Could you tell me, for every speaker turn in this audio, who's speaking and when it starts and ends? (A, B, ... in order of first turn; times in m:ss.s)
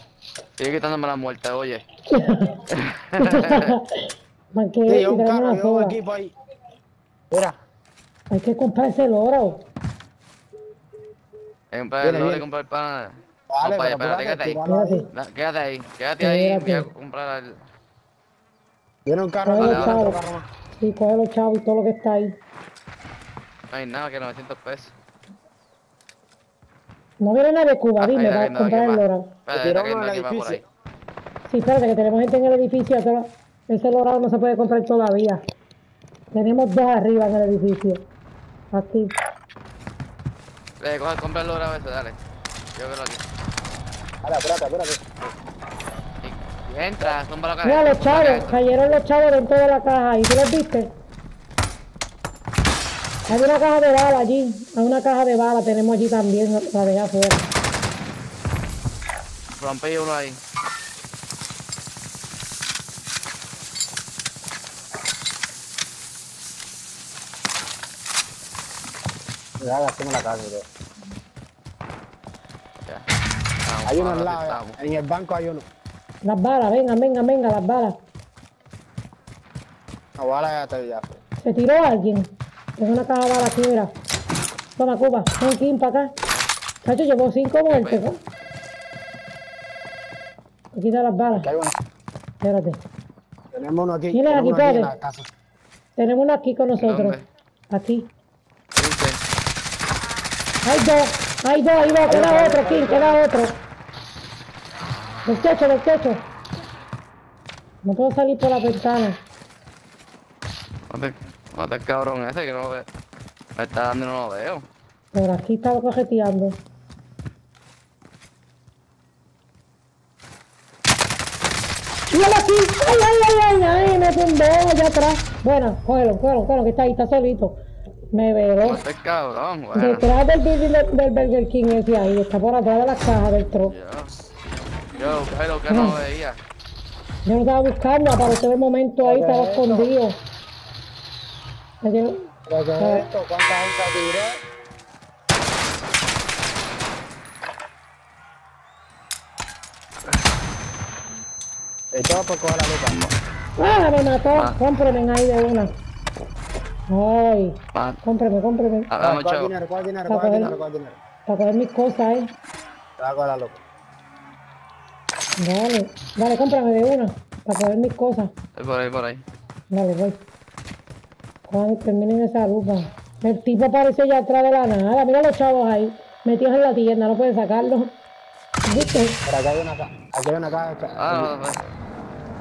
0:00.6-0:01.8 A
0:02.1-0:02.6 B
0:02.7-0:03.8 A
0:03.2-0:06.0 B
0:04.9-0:06.3 C
0:07.3-0:07.6 C
0:08.3-0:09.6 B
0:11.7-0:14.6 A
0:12.0-0:12.4 C
0:13.5-0:15.0 C
0:14.6-0:15.1 B
0:15.1-0:17.6 A
0:16.2-0:16.9 B
0:19.0-0:20.4 C
0:19.4-0:20.2 B
0:19.6-0:20.0 A
0:20.8-0:22.3 B
0:23.7-0:24.9 A
0:27.2-0:29.3 B
0:28.0-0:30.6 A
0:29.5-0:30.6 C
0:31.5-0:35.4 B
0:36.3-0:38.0 B
0:38.7-0:39.1 B
0:40.8-0:42.2 A
0:42.8-0:43.2 A
0:44.2-0:45.2 C
0:46.2-0:48.6 A
0:47.6-0:50.9 B
0:53.3-0:57.4 B
0:59.6-1:00.4 A
1:09.6-1:10.6 C
1:13.6-1:14.8 A
1:13.8-1:15.6 C
1:16.2-1:17.9 B
1:20.2-1:21.2 C
1:21.4-1:23.9 B
1:24.8-1:26.1 B
1:26.8-1:28.2 B
1:27.6-1:28.0 A
1:30.8-1:31.5 B
1:31.3-1:31.7 C
1:32.4-1:32.8 B
1:33.5-1:35.3 C
1:34.1-1:34.9 B
1:36.0-1:37.2 B
1:36.8-1:37.2 A
1:37.7-1:38.1 B
1:38.7-1:39.2 A
1:40.6-1:43.5 B
1:42.1-1:43.2 C
1:45.2-1:46.2 B
1:47.8-1:49.2 B
1:50.9-1:52.8 A
1:53.6-1:54.6 A
1:55.1-1:56.6 B
2:02.1-2:07.6 B
2:08.1-2:08.8 B
2:08.6-2:10.1 A
2:09.7-2:13.7 B
2:13.6-2:14.1 A
2:15.0-2:16.4 A
2:15.7-2:16.0 B
2:17.2-2:20.2 B
2:19.0-2:19.9 C
2:21.8-2:22.2 B
2:22.5-2:24.4 C
2:22.8-2:23.0 B
2:31.9-2:33.0 C
2:33.6-2:35.7 B
2:36.9-2:38.9 B
2:38.9-2:39.5 A
2:39.0-2:40.9 C
2:40.1-2:40.5 B
2:41.3-2:42.3 B
2:43.0-2:43.6 C
2:45.4-2:48.3 B
2:48.6-2:49.2 A
2:49.7-2:50.2 B
2:51.5-2:57.9 B
2:58.7-2:59.2 B
2:59.2-3:01.3 C
3:01.0-3:01.6 A